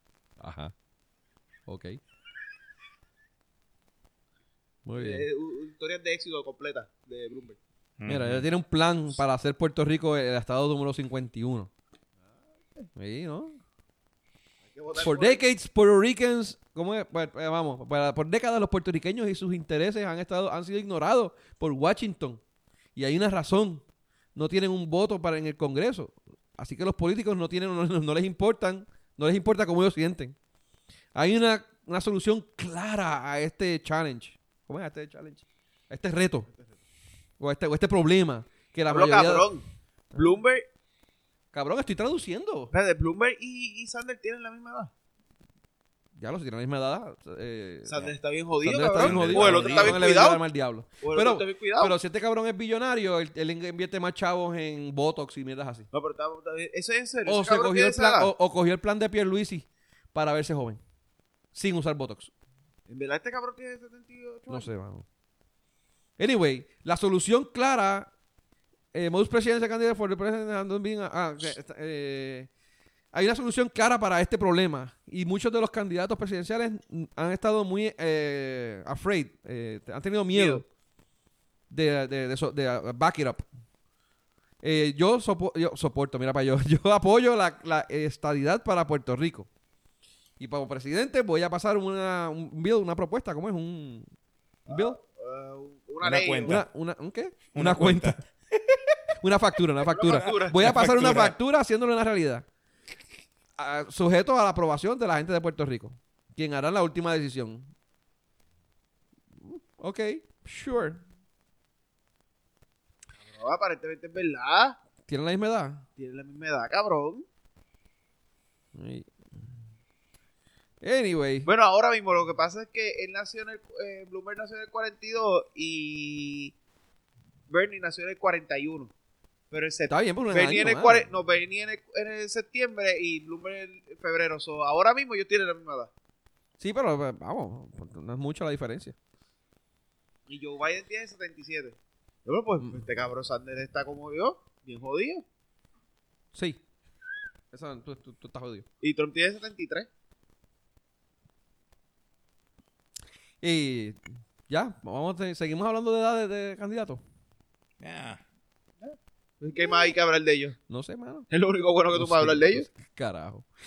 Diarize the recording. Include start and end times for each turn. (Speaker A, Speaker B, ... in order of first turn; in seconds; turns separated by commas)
Speaker A: 0.4-0.7, Speaker A: 1.7-2.0, Speaker A: 4.8-5.3, Speaker B: 5.0-7.6, Speaker C: 8.0-8.4, Speaker A: 8.1-11.7, Speaker A: 12.9-13.6, Speaker B: 14.6-15.4, Speaker A: 15.0-22.4, Speaker A: 22.9-23.8, Speaker A: 24.3-30.3, Speaker A: 31.1-36.5, Speaker A: 37.4-39.5, Speaker B: 38.9-39.6, Speaker B: 40.1-40.6, Speaker A: 41.5-42.7, Speaker B: 42.7-44.9, Speaker A: 46.2-55.9, Speaker B: 47.9-50.4, Speaker C: 49.0-50.0, Speaker B: 51.0-52.0, Speaker B: 55.9-58.3, Speaker A: 57.2-60.8, Speaker A: 61.5-62.3, Speaker B: 62.9-64.7, Speaker A: 64.5-65.0, Speaker A: 66.2-68.1, Speaker A: 68.9-72.5, Speaker A: 73.1-80.6, Speaker B: 80.3-80.6, Speaker A: 81.7-83.4, Speaker A: 84.6-89.5, Speaker A: 90.4-94.0, Speaker A: 94.7-95.0, Speaker B: 94.7-96.6, Speaker C: 96.0-96.6, Speaker A: 96.4-98.2, Speaker C: 97.5-98.8, Speaker A: 99.2-102.4, Speaker B: 99.8-101.3, Speaker C: 100.2-101.3, Speaker A: 103.6-107.7, Speaker A: 109.4-111.0, Speaker B: 113.2-114.8, Speaker A: 115.1-115.8, Speaker B: 116.0-117.2, Speaker A: 118.7-119.1, Speaker A: 120.8-121.5, Speaker B: 121.5-126.5, Speaker B: 127.5-128.9, Speaker B: 129.5-135.9, Speaker A: 129.9-131.1, Speaker A: 136.6-138.9, Speaker B: 140.3-145.2, Speaker A: 146.3-146.6, Speaker A: 147.5-148.7, Speaker B: 148.8-149.9, Speaker A: 153.4-157.0, Speaker C: 157.8-158.2, Speaker B: 158.8-160.6, Speaker A: 160.7-161.3, Speaker B: 161.3-162.7, Speaker A: 161.9-163.4